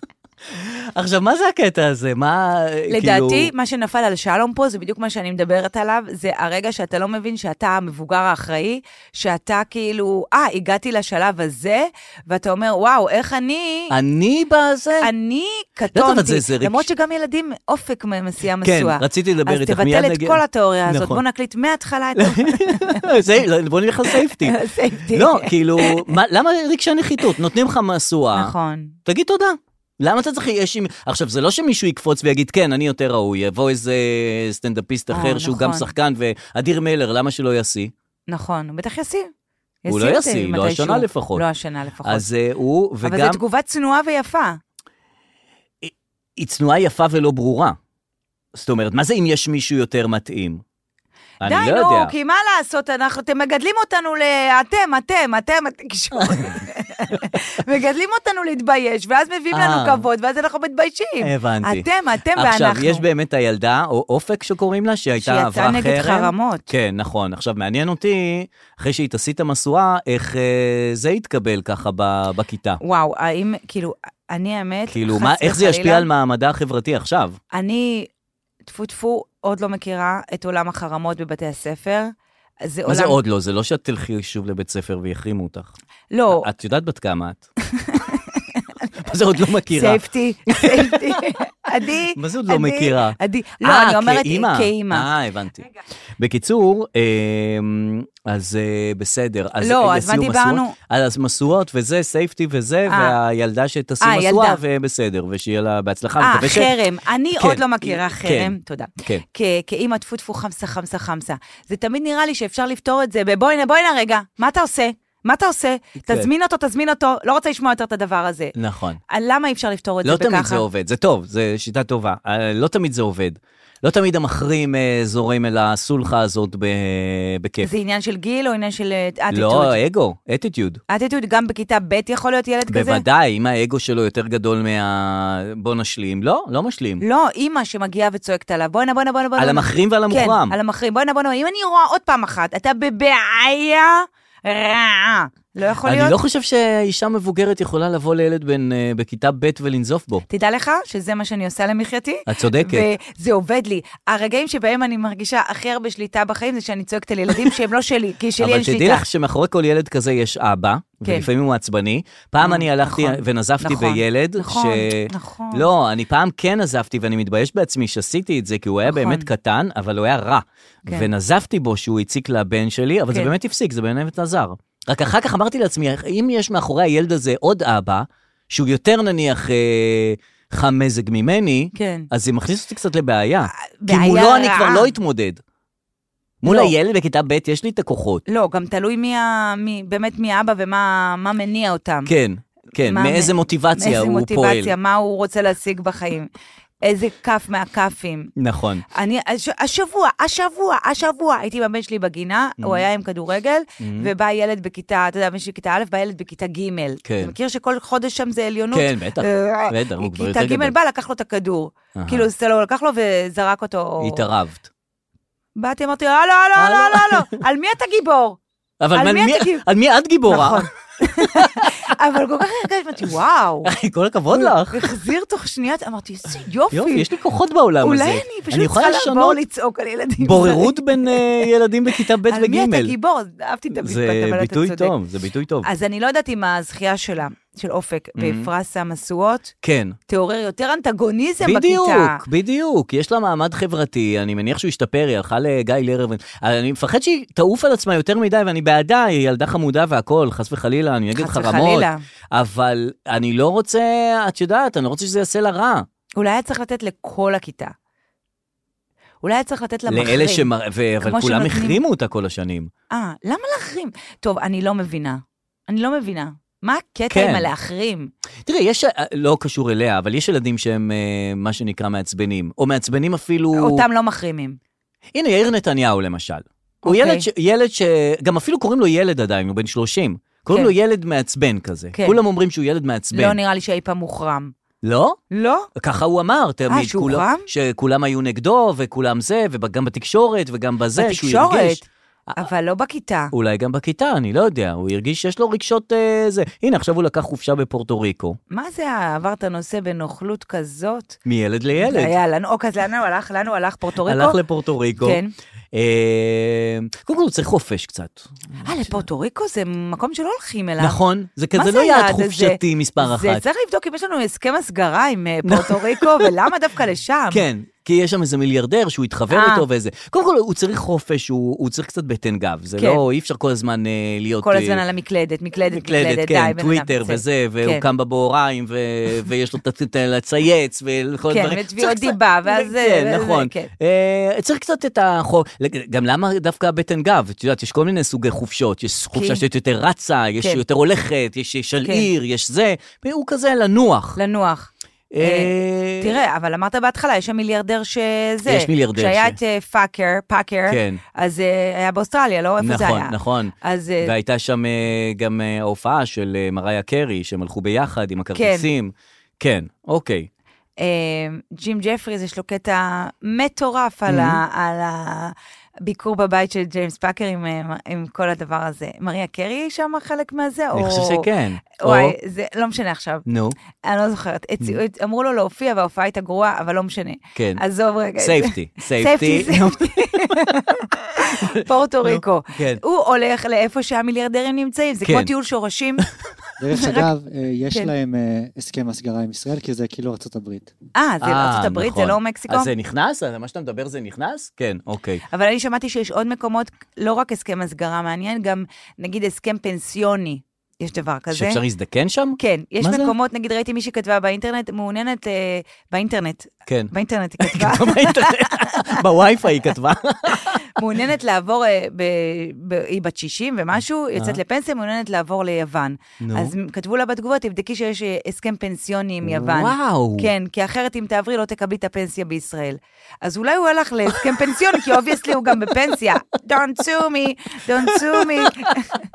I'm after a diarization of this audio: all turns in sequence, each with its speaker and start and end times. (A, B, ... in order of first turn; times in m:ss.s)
0:00.5-0:03.5 A
0:02.9-0:13.9 B
0:13.9-0:15.1 A
0:15.0-0:23.1 B
0:15.9-0:16.9 A
0:18.6-0:21.2 A
0:22.2-0:24.6 A
0:24.2-0:26.1 B
0:25.1-0:28.5 A
0:28.4-0:29.0 B
0:29.0-0:37.9 A
0:35.1-0:35.9 B
0:38.3-0:39.3 B
0:39.8-0:42.2 B
0:39.9-0:41.4 A
0:42.0-0:43.4 A
0:43.0-0:44.6 B
0:45.8-0:47.8 A
0:48.6-0:50.6 A
0:51.4-0:52.1 A
0:51.4-1:03.0 B
0:56.2-0:56.6 A
0:59.5-1:00.0 A
1:01.2-1:12.8 A
1:05.2-1:06.7 B
1:12.8-1:16.1 B
1:14.9-1:17.4 A
1:17.5-1:18.1 B
1:18.6-1:22.1 B
1:22.6-1:23.2 B
1:22.9-1:25.7 A
1:26.1-1:26.4 B
1:26.4-1:27.5 A
1:27.7-1:28.6 B
1:29.0-1:31.2 A
1:29.7-1:35.1 B
1:32.2-1:35.7 A
1:36.2-1:46.8 A
1:39.6-1:40.7 B
1:42.9-1:43.2 B
1:44.0-1:44.6 B
1:46.2-1:58.5 B
1:47.4-1:49.2 A
1:56.0-1:56.3 A
1:58.6-1:59.0 A
1:59.1-2:00.6 B
2:00.0-2:07.7 A
2:07.6-2:09.8 B
2:09.3-2:10.8 A
2:10.9-2:13.0 B
2:12.7-2:17.0 A
2:17.0-2:26.2 B
2:19.4-2:20.6 A
2:25.8-2:30.2 A
2:30.3-2:39.0 B
2:32.3-2:32.9 A
2:38.4-3:05.4 A
2:42.4-2:45.7 B
2:48.9-2:49.3 B
3:01.8-3:02.1 B
3:03.8-3:04.9 B
3:06.4-3:08.2 A
3:06.5-3:06.7 B
3:08.3-3:12.1 B
3:12.1-3:14.7 A
3:12.9-3:16.3 B
3:16.8-3:18.3 B
3:18.4-3:18.8 A
3:18.9-3:34.2 B
3:22.6-3:22.8 A
3:23.8-3:24.1 A
3:27.0-3:27.3 A
3:28.7-3:30.7 A
3:32.0-3:32.3 A
3:34.0-3:34.7 A
3:35.6-3:38.4 B
3:36.6-3:37.4 A
3:38.8-3:40.7 A
3:38.9-3:39.6 B
3:40.3-3:43.7 B
3:41.2-3:41.9 A
3:43.6-3:44.9 A
3:44.3-3:47.1 B
3:46.7-3:49.4 A
3:47.8-3:51.5 B
3:50.2-3:53.0 A
3:52.3-3:54.9 B
3:53.8-3:55.7 A
3:55.6-3:59.5 B
3:58.2-3:58.5 A
3:59.6-4:00.0 A
4:00.1-4:02.2 B
4:01.4-4:15.9 A
4:11.2-4:12.0 B
4:16.2-4:17.7 B
4:19.2-4:20.5 B
4:19.9-4:22.7 A
4:21.0-4:21.8 B
4:22.9-4:28.1 B
4:27.1-4:27.5 A
4:28.5-4:33.8 A
4:33.6-4:34.6 B
4:35.1-4:43.4 A
4:36.8-4:37.2 B
4:41.9-4:42.2 B
4:43.1-4:44.5 B
4:44.8-4:45.2 A
4:45.3-4:45.7 B
4:45.8-4:52.4 A
4:46.7-4:47.5 B
4:51.0-4:51.8 B
4:52.4-4:53.3 B
4:53.3-4:58.4 A
4:58.5-5:01.2 B
5:01.3-5:02.2 A
5:01.8-5:04.4 B
5:04.1-5:05.2 A
5:05.0-5:05.3 B
5:05.7-5:08.9 A
5:08.6-5:11.0 B
5:10.8-5:13.4 A
5:11.6-5:17.4 B
5:15.4-5:16.3 A
5:17.3-5:24.8 A
5:19.3-5:19.6 B
5:24.4-5:27.8 B
5:25.7-5:44.2 A
5:31.3-5:33.7 B
5:39.1-5:39.4 B
5:44.2-5:44.7 B
5:45.1-5:46.2 A
5:45.2-5:54.1 B
5:48.5-5:49.4 A
5:50.7-5:51.0 A
5:52.6-6:00.3 A
5:58.4-5:58.7 B
6:00.8-6:05.3 B
6:04.1-6:04.4 A
6:05.8-6:11.3 B
6:10.7-6:12.2 A
6:11.8-6:13.2 B
6:13.3-6:13.6 A
6:13.8-6:26.1 B
6:17.4-6:17.6 A
6:18.2-6:20.4 A
6:21.4-6:22.8 A
6:25.0-6:25.3 A
6:26.6-6:30.7 C
6:26.8-6:27.1 B
6:31.0-6:32.7 B
6:31.2-6:35.2 A
6:35.3-6:41.6 B
6:41.3-6:43.1 A
6:42.4-6:48.9 B
6:46.7-6:50.8 A
6:50.3-7:09.0 B
6:56.2-6:56.5 A
6:59.3-7:00.3 A
7:04.3-7:05.6 A
7:07.8-7:08.7 A